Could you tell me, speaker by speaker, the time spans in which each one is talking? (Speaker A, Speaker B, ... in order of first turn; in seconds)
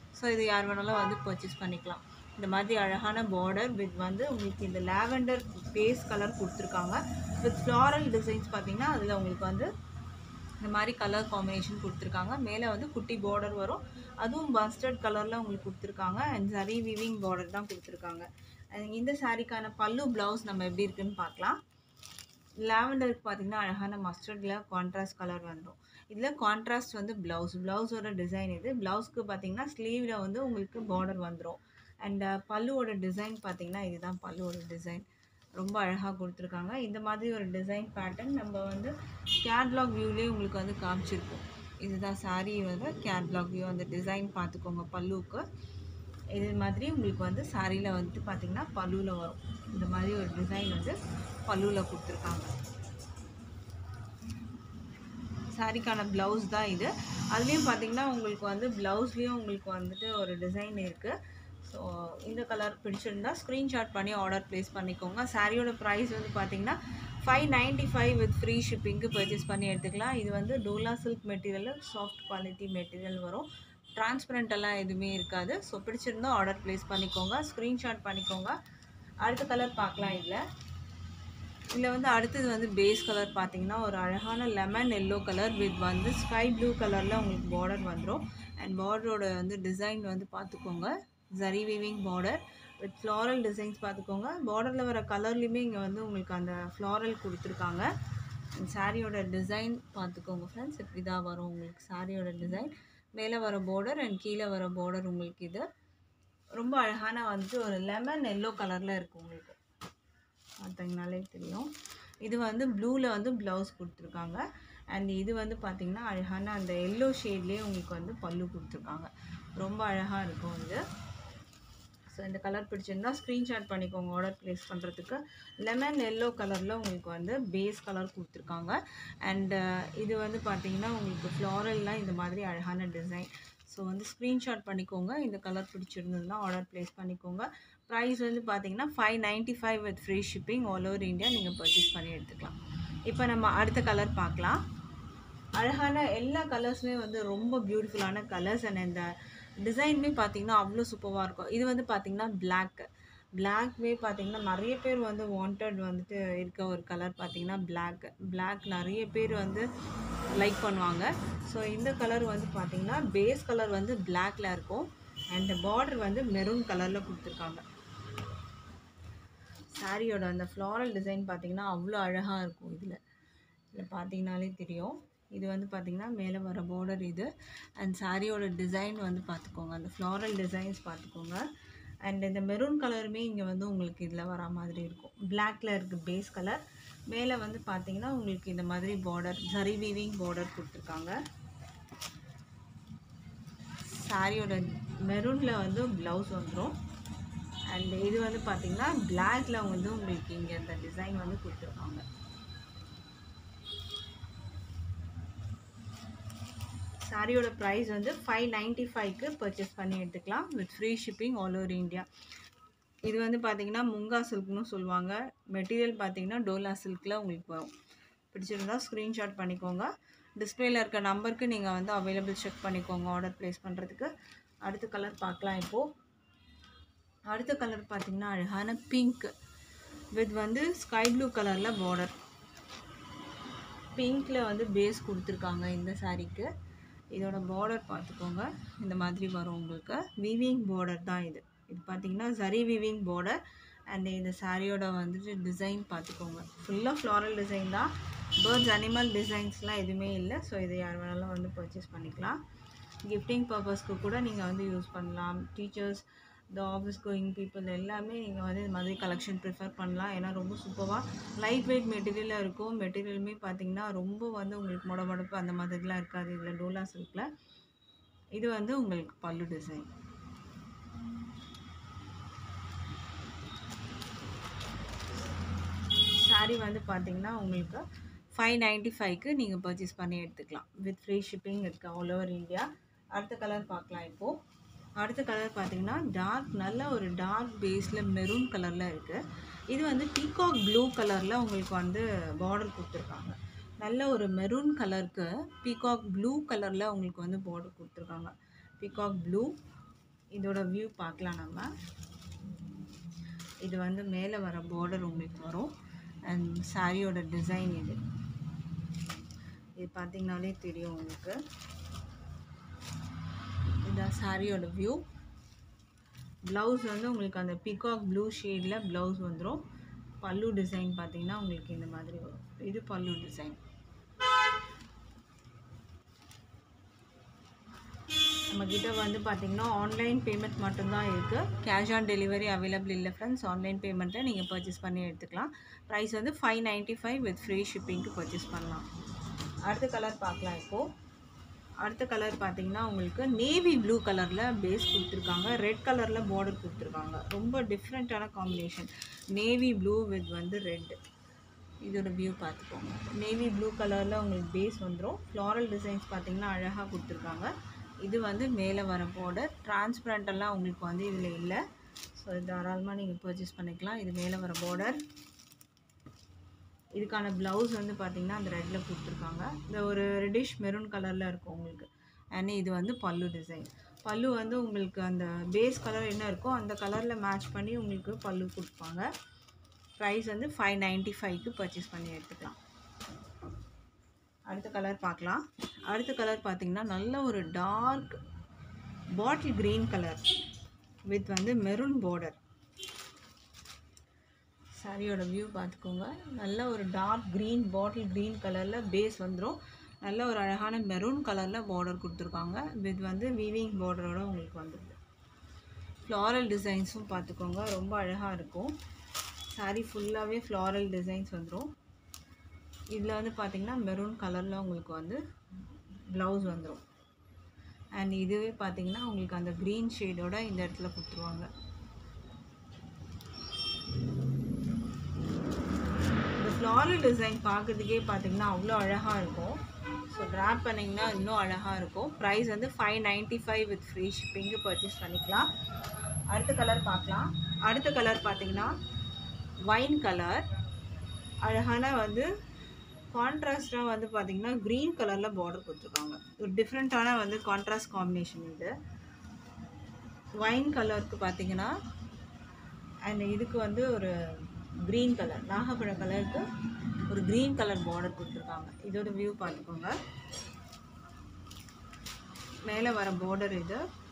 Speaker A: 0.1-9.7, 10.6-21.6, 22.6-35.0, 35.6-45.5, 46.4-52.5, 55.5-78.6, 79.2-80.4, 81.8-97.9, 98.5-105.7, 106.6-109.6, 110.6-111.7, 112.2-120.8, 122.1-142.6, 143.1-144.6, 145.6-149.1, 149.6-159.7, 160.4-167.6, 169.8-173.0, 173.7-181.4, 182.1-191.2, 193.9-196.8, 197.7-202.1, 207.1-212.1, 213.1-217.7, 218.3-224.1, 224.7-225.9, 227.3-229.3, 230.2-232.2, 234.0-236.5, 237.1-243.4, 243.9-252.4, 253.1-267.3, 268.3-269.9, 276.1-284.4, 285.0-299.6, 300.3-301.7, 303.6-305.7, 306.3-308.0, 309.8-311.4, 313.8-315.0, 316.5-319.6, 320.2-323.6, 328.5-338.9, 339.7-340.9, 341.8-351.0, 351.8-357.5, 358.0-361.6, 362.2-365.0, 367.0-379.1, 380.0-382.6, 384.5-388.2, 389.2-390.3, 391.1-392.4, 394.8-405.0, 406.1-408.8, 409.5-411.7, 412.9-415.2, 416.1-416.8, 417.9-421.5, 426.4-435.5, 436.3-438.8, 439.6-440.4, 441.4-442.3, 443.1-448.7, 450.4-451.8, 453.1-456.4, 457.1-460.0, 462.6-463.8